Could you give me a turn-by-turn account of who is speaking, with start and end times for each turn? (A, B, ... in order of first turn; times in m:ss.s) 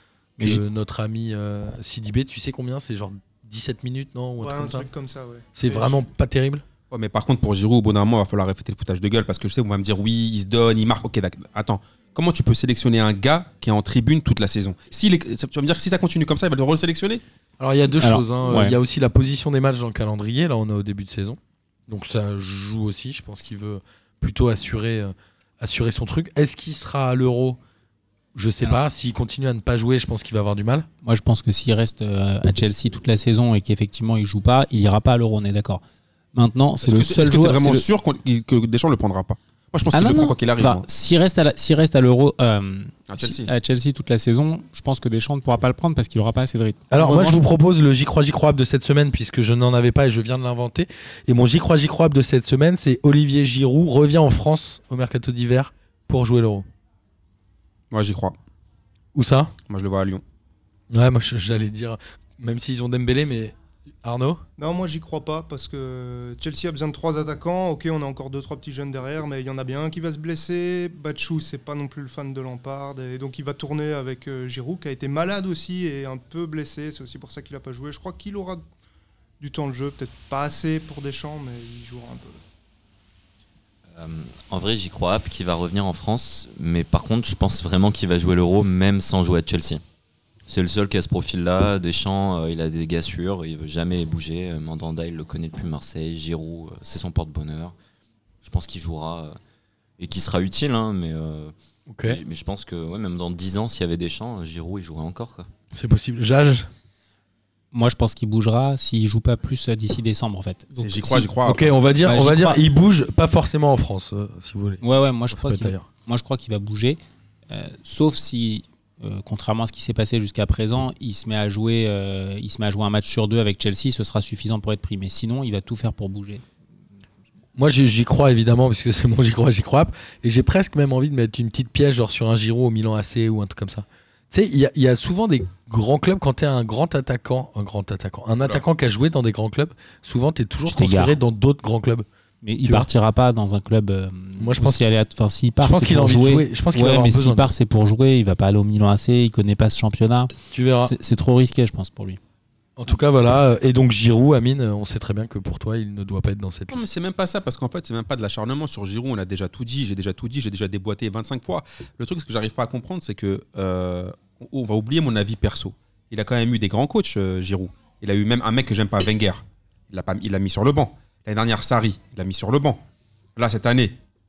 0:00.4-0:04.9 A
0:04.4-0:06.0 B
0:05.5-0:06.6 A
0:06.9-0:17.2 C
0:17.6-0:27.6 A
0:18.0-0:18.8 D
0:28.3-0:30.9 A
0:31.0-0:35.8 D
0:36.3-0:37.8 D
0:36.8-0:40.8 C
0:39.9-0:47.4 D
0:43.1-0:43.5 C
0:46.9-0:56.7 A
0:57.9-0:58.3 C
0:59.1-0:59.5 A
0:59.7-1:00.2 C
1:00.9-1:04.4 A
1:04.6-1:18.6 B
1:19.4-1:22.4 B
1:23.9-1:29.8 E
1:30.5-1:37.7 E
1:38.4-1:39.4 E
1:40.0-1:41.5 E
1:41.9-1:42.2 A
1:42.0-1:45.5 E
1:45.7-1:46.7 A
1:47.7-1:51.3 D
1:50.7-1:51.8 C
1:51.4-1:55.8 A
1:52.0-1:52.6 D
1:54.8-1:57.0 D
1:57.5-2:06.4 D
2:07.6-2:22.1 A
2:20.6-2:21.2 D
2:22.4-2:30.3 D
2:22.6-2:22.9 A
2:24.4-2:24.8 A
2:25.6-2:27.5 A
2:30.5-2:30.9 A
2:30.8-2:32.2 D
2:32.8-2:36.9 A
2:36.7-2:52.8 C
2:53.4-2:54.0 C